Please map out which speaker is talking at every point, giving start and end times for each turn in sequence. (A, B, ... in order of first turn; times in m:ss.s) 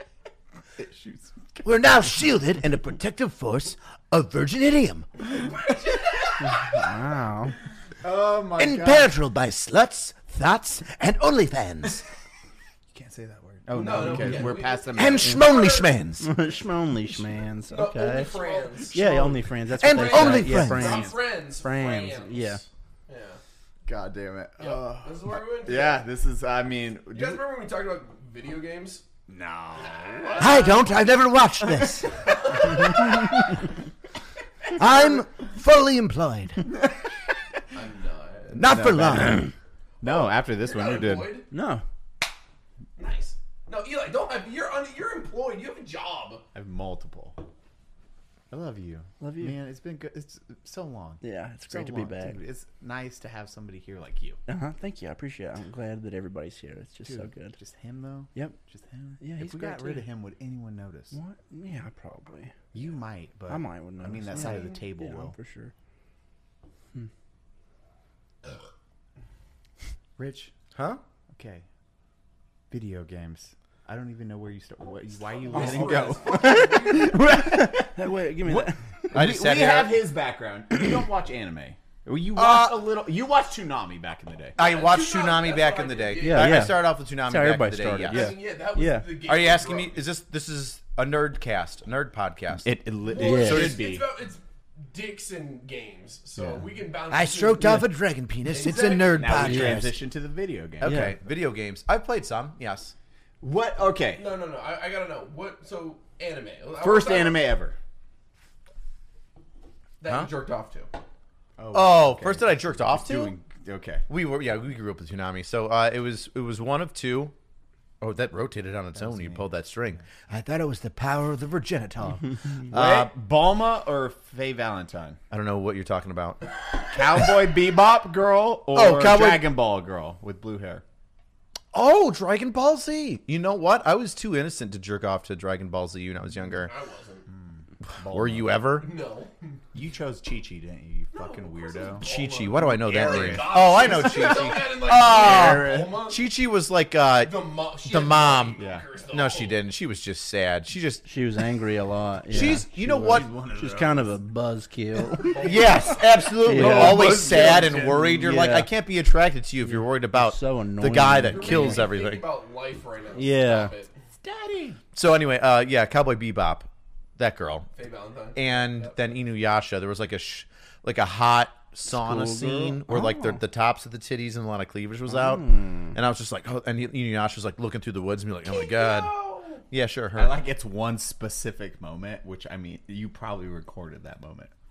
0:00.8-0:01.9 A
0:01.6-0:05.1 B
0:05.6-0:06.3 C
0:06.4-0:07.5 D
0:08.0-0:09.1 A
0:08.6-0:12.0 B
0:12.9-0:15.5 A
0:13.7-0:15.5 C
0:13.8-0:14.4 D
0:14.9-0:16.2 B
0:15.0-0:16.0 E
0:16.2-0:18.3 D
0:17.7-0:23.4 C
0:18.3-0:19.3 A
0:18.9-0:22.6 D
0:19.8-0:20.4 E
0:19.8-0:21.1 B
0:20.7-0:21.1 A
0:23.8-0:27.4 A
0:24.6-0:26.0 C
0:27.1-0:29.0 C
0:29.3-0:30.8 A
0:29.8-0:30.9 C
0:30.4-0:32.1 B
0:32.1-0:33.2 C
0:34.8-0:36.6 B
0:37.7-0:38.6 C
0:38.5-0:39.5 B
0:38.6-0:39.4 A
0:40.0-0:41.3 A
0:40.0-0:41.4 C
0:41.5-0:41.8 D
0:43.0-0:46.4 C
0:46.5-0:47.4 A
0:48.5-0:54.4 A
0:49.2-0:49.6 D
0:51.2-0:52.4 D
0:54.5-0:57.6 D
0:57.1-1:01.1 A
0:59.2-1:00.1 D
1:01.1-1:02.5 D
1:02.7-1:05.3 A
1:03.5-1:05.7 D
1:10.2-1:10.5 A
1:10.7-1:11.0 E
1:11.3-1:11.6 A
1:12.7-1:17.9 A
1:15.3-1:17.2 C
1:15.5-1:19.1 D
1:18.4-1:24.6 A
1:19.1-1:20.0 E
1:22.3-1:22.9 E
1:24.6-1:28.3 E
1:24.6-1:26.7 C
1:26.2-1:29.1 D
1:28.1-1:30.0 C
1:29.2-1:32.7 E
1:32.6-1:34.1 A
1:33.0-1:37.8 C
1:33.2-1:33.8 D
1:33.3-1:33.8 E
1:36.4-1:36.6 A
1:37.1-1:40.0 B
1:37.6-1:37.8 D
1:38.5-1:39.6 C
1:38.8-1:41.2 A
1:39.4-1:39.8 D
1:40.8-1:42.9 E
1:40.8-1:41.2 D
1:43.4-1:44.2 A
1:44.2-1:47.5 C
1:46.8-1:47.8 A
1:50.0-1:50.9 C
1:51.6-1:54.0 A
1:51.7-1:53.4 E
1:54.1-1:57.3 E
1:58.0-2:00.0 E
1:58.9-1:59.5 A
2:00.3-2:02.3 B
2:02.7-2:05.2 A
2:02.7-2:03.1 E
2:05.3-2:06.4 E
2:06.9-2:10.8 A
2:08.7-2:09.5 E
2:11.7-2:16.7 E
2:16.6-2:17.3 C
2:17.3-2:18.6 A
2:18.1-2:18.9 E
2:18.8-2:19.5 C
2:19.7-2:22.1 A
2:21.1-2:26.2 C
2:22.0-2:28.6 E
2:22.8-2:25.9 A
2:27.2-2:29.6 C
2:28.6-2:28.8 A
2:29.1-2:31.0 E
2:31.0-2:35.5 D
2:32.3-2:33.3 E
2:32.4-2:34.1 A
2:35.1-2:38.2 A
2:35.2-2:36.2 C
2:35.4-2:42.2 E
2:36.4-2:37.6 D
2:38.1-2:38.7 D
2:39.6-2:41.8 D
2:41.2-2:43.9 C
2:43.1-2:43.7 D
2:44.2-2:44.8 A
2:44.9-2:47.7 E
2:47.8-2:49.1 C
2:48.3-2:59.1 E
2:51.9-2:53.4 D
2:55.1-2:55.9 D
2:58.4-2:59.6 C
2:59.7-3:00.4 E
3:00.1-3:04.5 A